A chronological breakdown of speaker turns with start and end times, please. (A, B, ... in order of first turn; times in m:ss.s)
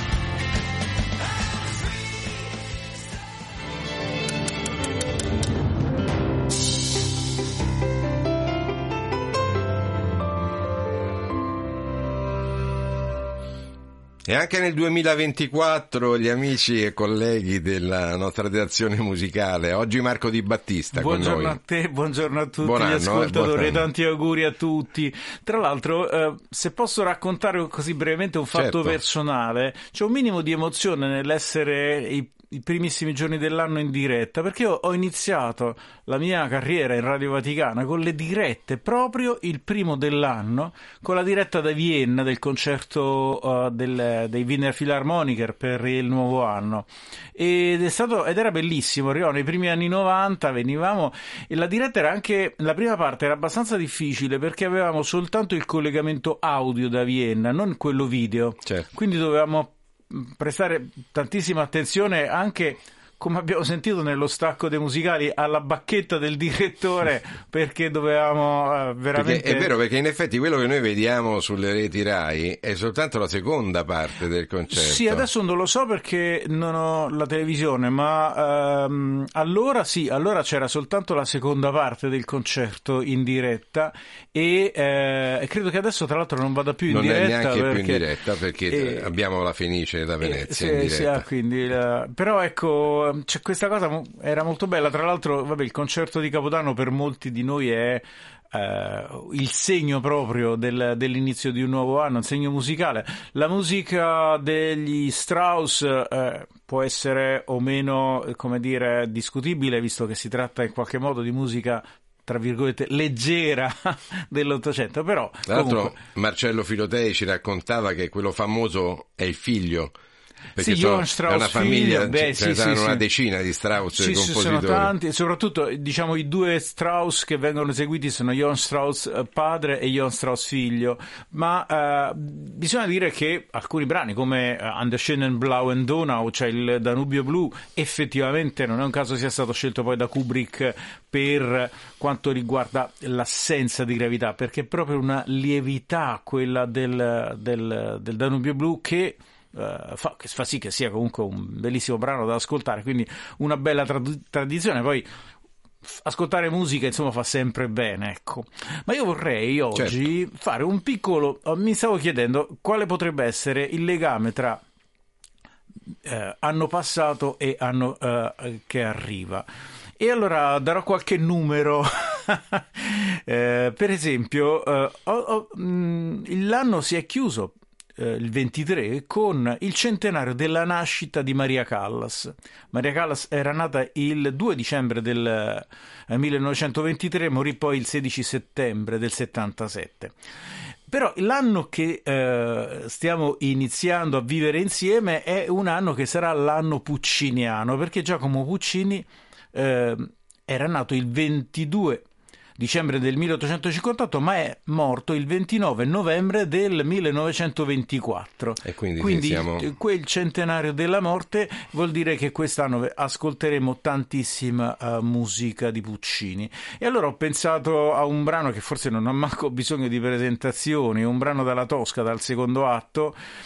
0:14.3-0:21.6 A
0:20.9-1:09.7 B
0:22.6-0:23.9 A
0:28.5-0:29.0 A
1:09.2-1:15.3 A
1:14.7-1:28.2 B
1:26.9-1:31.2 A
1:28.7-1:29.1 B
1:30.2-1:56.0 B
1:55.5-2:00.0 A
2:00.6-2:04.9 A
2:00.6-2:03.0 B
2:03.9-2:35.1 B
2:35.8-2:44.6 B
2:39.8-2:40.0 A
2:46.1-2:49.5 B
2:50.0-3:10.1 B
3:10.9-3:22.0 B
3:22.6-3:43.2 B
3:28.6-3:29.7 A